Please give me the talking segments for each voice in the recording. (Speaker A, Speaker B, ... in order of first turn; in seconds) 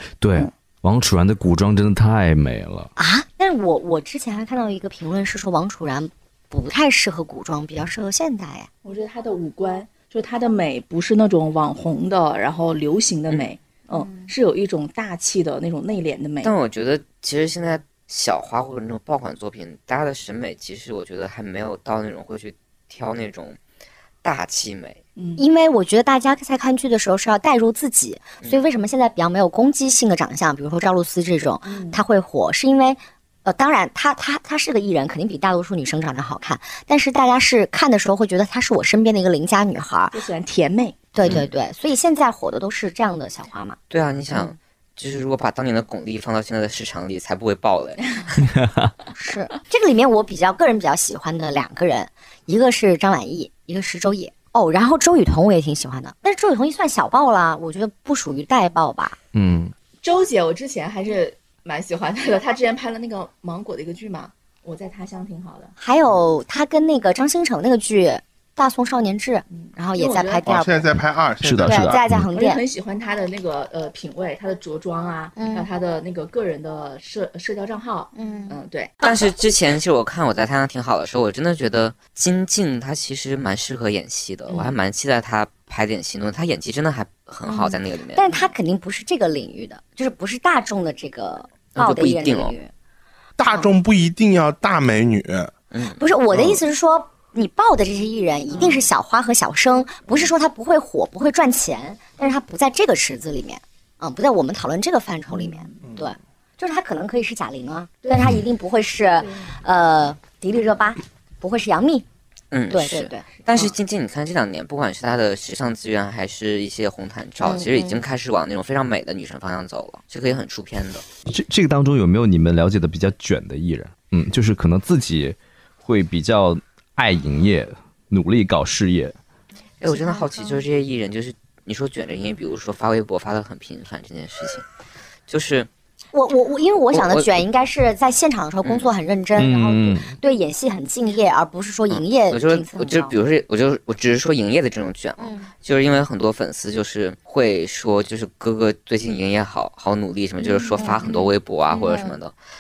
Speaker A: 0.2-2.9, 59.3-59.7, 71.4-72.3, 121.3-129.2, 139.4-140.2
Speaker B: 3.0-8.7, 13.9-14.3, 25.4-40.2, 41.1-43.8, 49.1-59.2, 65.8-70.9, 71.6-72.6, 75.4-75.7, 78.2-78.6, 87.5-92.7, 96.0-112.1, 112.7-113.7, 117.4-118.0, 136.1-143.1, 145.2-145.5, 150.8-151.1, 151.7-152.2
Speaker C: 8.8-16.5, 25.2-25.4, 31.6-32.0, 40.1-41.0, 60.0-65.7, 69.5-70.5, 72.3-78.9, 105.5-105.7, 129.9-130.6, 150.8-151.3
Speaker D: 16.4-23.6, 24.2-25.0, 41.2-41.5, 43.9-48.5, 79.0-88.5, 91.8-92.6, 95.7-96.1, 112.5-121.0, 129.8-134.6, 135.3-135.7, 136.9-137.3, 138.6-138.9, 141.9-152.3
Speaker E: 70.5-72.0, 93.4-95.5, 96.3-96.6